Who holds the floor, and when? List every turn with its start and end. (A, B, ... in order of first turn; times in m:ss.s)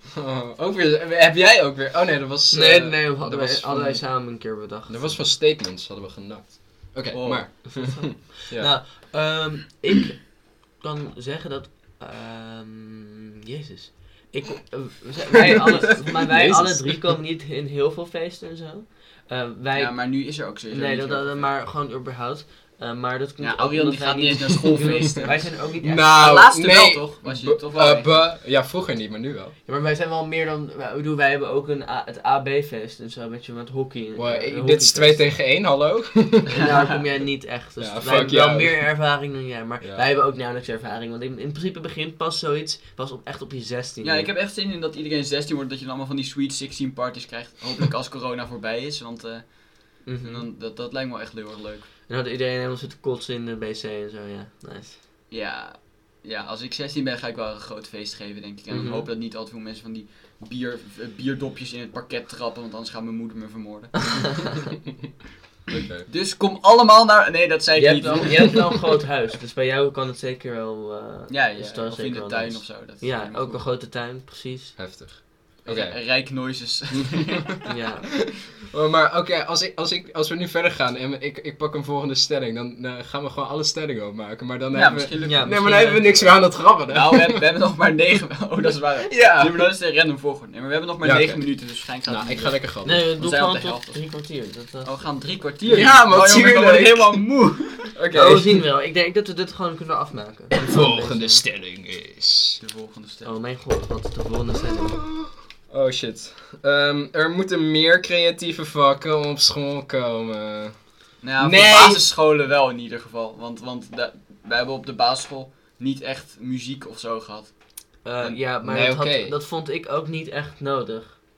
0:00.1-0:08.8 A
0:02.5-0:05.3 B
0:07.1-0:07.5 C
0:07.7-0:26.1 B
0:15.4-0:17.1 A
0:19.8-0:21.6 C
0:23.4-0:25.6 C
0:24.8-0:29.6 A
0:26.1-0:28.2 C
0:29.7-0:35.3 B
0:34.2-0:36.7 A
0:36.5-0:44.3 B
0:36.6-0:37.0 C
0:37.8-0:39.0 A
0:44.0-0:51.9 C
0:50.0-0:50.5 B
0:52.1-0:55.0 B
0:55.3-1:04.5 C
0:58.7-0:59.1 B
1:05.7-1:06.1 A
1:06.1-1:08.8 C
1:07.8-1:14.8 B
1:11.3-1:13.7 C
1:14.8-1:16.0 A
1:15.6-1:17.6 C
1:17.7-1:18.1 B
1:18.5-1:27.4 A
1:24.7-1:34.1 C
1:25.2-1:26.1 B
1:29.1-1:29.7 A
1:31.0-1:31.5 A
1:32.0-1:33.1 A
1:32.8-1:34.9 B
1:34.8-1:37.9 C
1:35.6-1:37.2 A
1:37.9-1:38.7 A
1:38.1-1:41.4 B
1:40.6-1:42.6 A
1:42.6-1:43.3 C
1:43.2-1:45.1 B
1:45.2-1:52.1 A
1:51.2-1:58.4 C
1:58.0-2:01.2 B
1:58.6-1:59.4 A